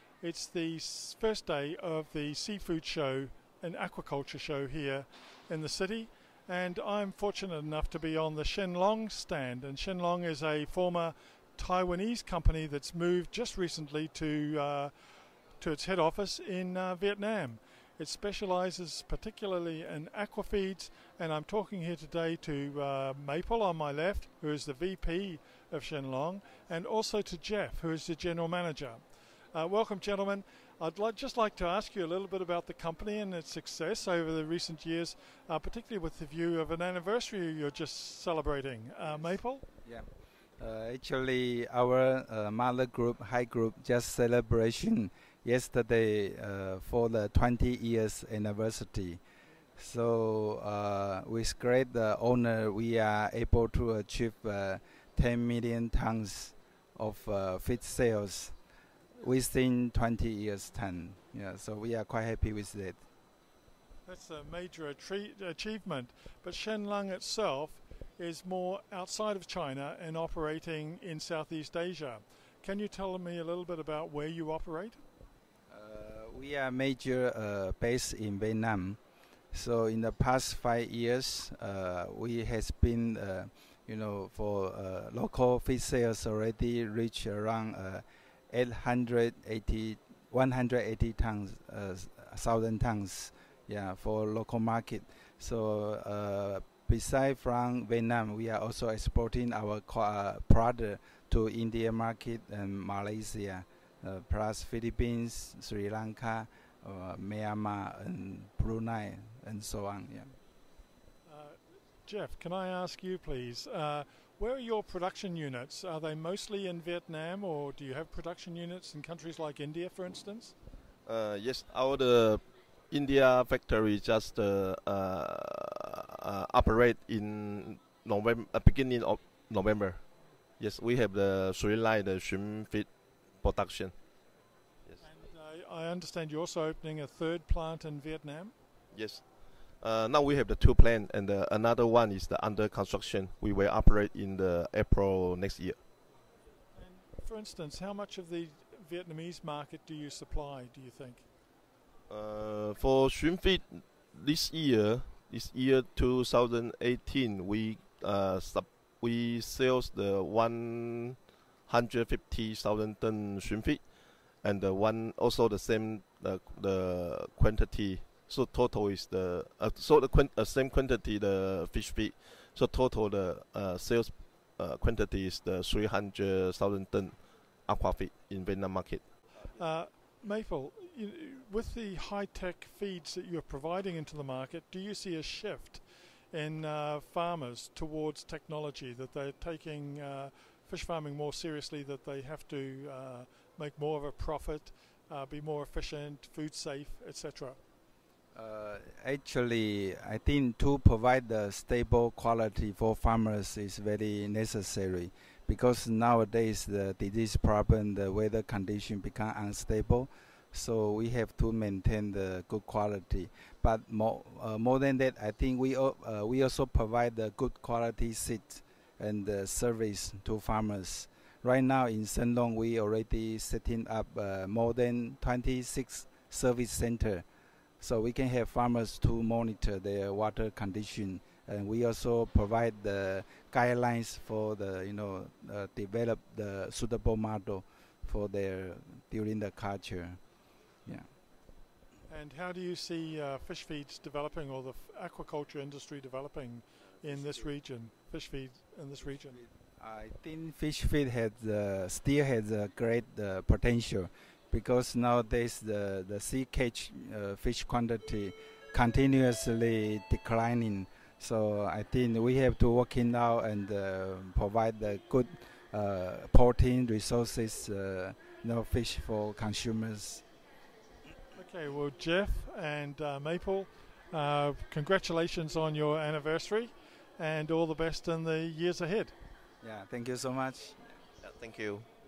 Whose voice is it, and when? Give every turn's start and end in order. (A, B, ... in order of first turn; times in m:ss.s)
0:00.2-0:39.6 A
0:40.6-0:49.2 B
0:49.8-0:58.6 B
0:59.2-1:03.0 B
1:04.1-1:15.0 A
1:15.7-1:19.0 B
1:19.5-1:50.4 B
1:51.3-2:00.5 A
2:01.1-2:10.0 C
2:10.6-2:14.0 C
2:15.0-2:18.6 A
2:18.9-2:25.8 C
2:26.7-2:31.3 A
2:32.1-2:59.6 C
2:59.6-3:17.6 A
3:18.3-3:47.3 B
3:47.8-4:00.2 B
4:02.1-4:09.4 A
4:09.3-4:30.2 B
4:31.4-4:39.1 A
4:39.6-4:40.8 B
4:41.2-4:41.9 C